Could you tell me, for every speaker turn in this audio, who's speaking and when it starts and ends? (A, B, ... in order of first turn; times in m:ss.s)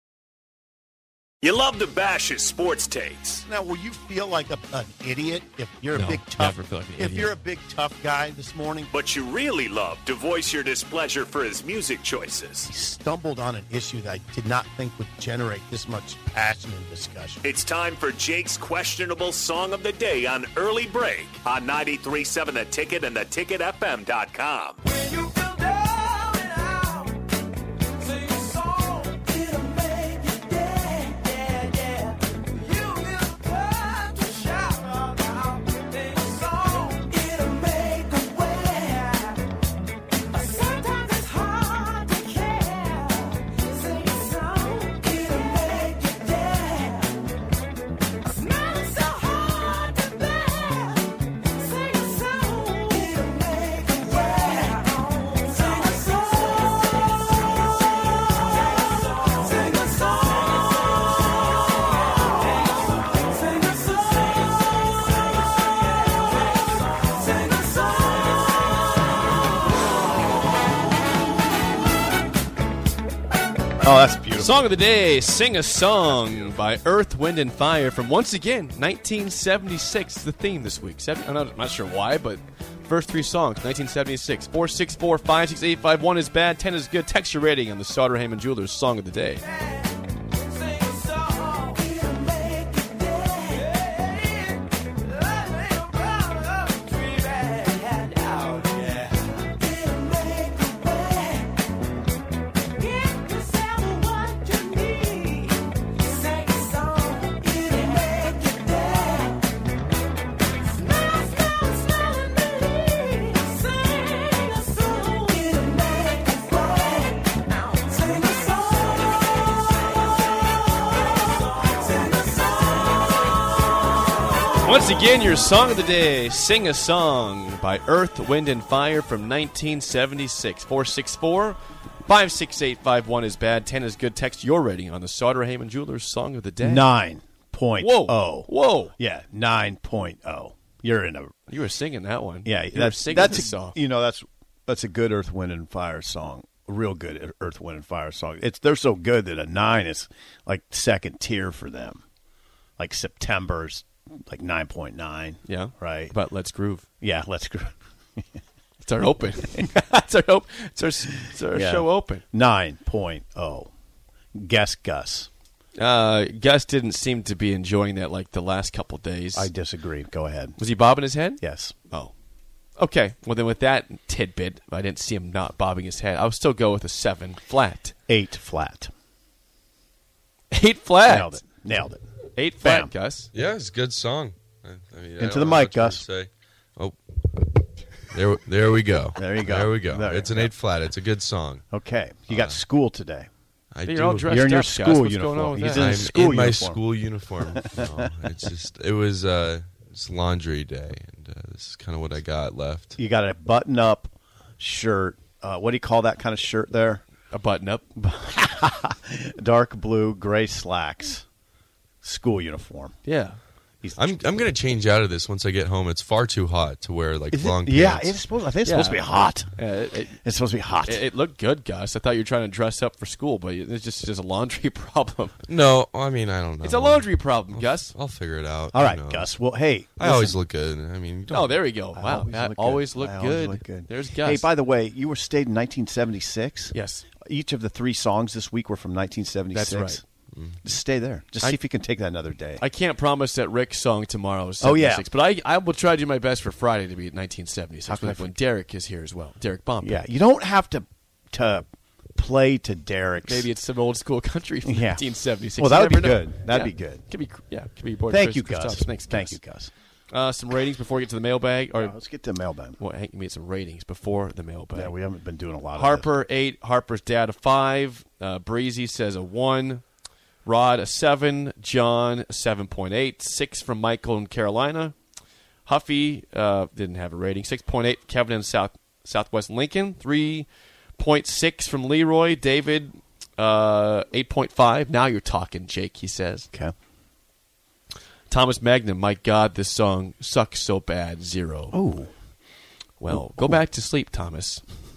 0:01.4-0:03.4 A
0:03.5-0:08.9 B
0:05.9-0:07.4 C
0:08.9-0:12.7 A
0:12.7-0:17.5 B
0:17.4-0:24.8 A
1:13.8-1:14.6 B
1:14.4-1:29.5 C
2:04.6-2:16.9 C
2:16.6-2:21.4 B
2:17.8-2:18.9 C
2:21.5-2:23.8 C
2:22.4-2:32.0 B
2:32.8-2:36.2 B
2:35.4-2:36.8 C
2:37.0-2:38.2 B
2:38.8-2:42.2 C
2:41.5-2:43.7 B
2:44.4-2:45.3 B
2:45.8-2:49.5 C
2:49.3-2:50.6 B
2:50.6-2:52.1 C
2:51.4-2:51.7 B
2:52.8-2:58.0 C
2:58.1-2:58.9 B
3:00.5-3:01.4 C
3:01.0-3:02.0 B
3:02.4-3:03.3 C
3:02.6-3:02.9 B
3:03.3-3:11.6 D
3:05.2-3:06.0 B
3:09.2-3:10.5 B
3:11.7-3:13.3 B
3:12.3-3:12.6 D
3:13.7-3:14.4 D
3:13.9-3:16.0 C
3:14.2-3:18.1 B
3:15.7-3:23.0 D
3:23.0-3:27.0 B
3:27.3-3:27.8 C
3:28.0-3:31.2 B
3:32.0-3:33.0 B
3:33.0-3:33.4 C
3:33.8-3:34.4 B
3:34.0-3:38.2 D
3:37.3-3:39.5 B
3:38.6-3:40.2 C
3:40.2-3:41.0 B
3:40.8-3:45.4 C
3:45.5-3:49.4 D
3:46.6-3:47.9 C
3:48.7-3:50.4 B
3:50.0-3:51.6 D
3:51.3-4:00.0 B
3:51.3-3:54.5 C
3:56.7-3:57.1 C
3:59.5-4:00.0 C
4:00.3-4:00.6 D
4:00.6-4:02.6 B
4:02.6-4:10.0 C
4:04.6-4:05.1 B
4:07.9-4:08.3 B
4:09.8-4:13.5 B
4:13.2-4:19.4 C
4:14.6-4:15.0 B
4:15.6-4:17.0 B
4:18.1-4:19.7 B
4:20.1-4:22.0 C
4:21.8-4:22.8 B
4:22.8-4:24.9 C
4:24.7-4:26.1 B
4:25.7-4:29.9 C
4:30.4-4:35.0 C
4:35.7-4:46.5 C
4:48.3-4:51.8 C
4:51.7-4:52.1 B
4:53.0-4:54.6 C
4:53.1-4:53.6 B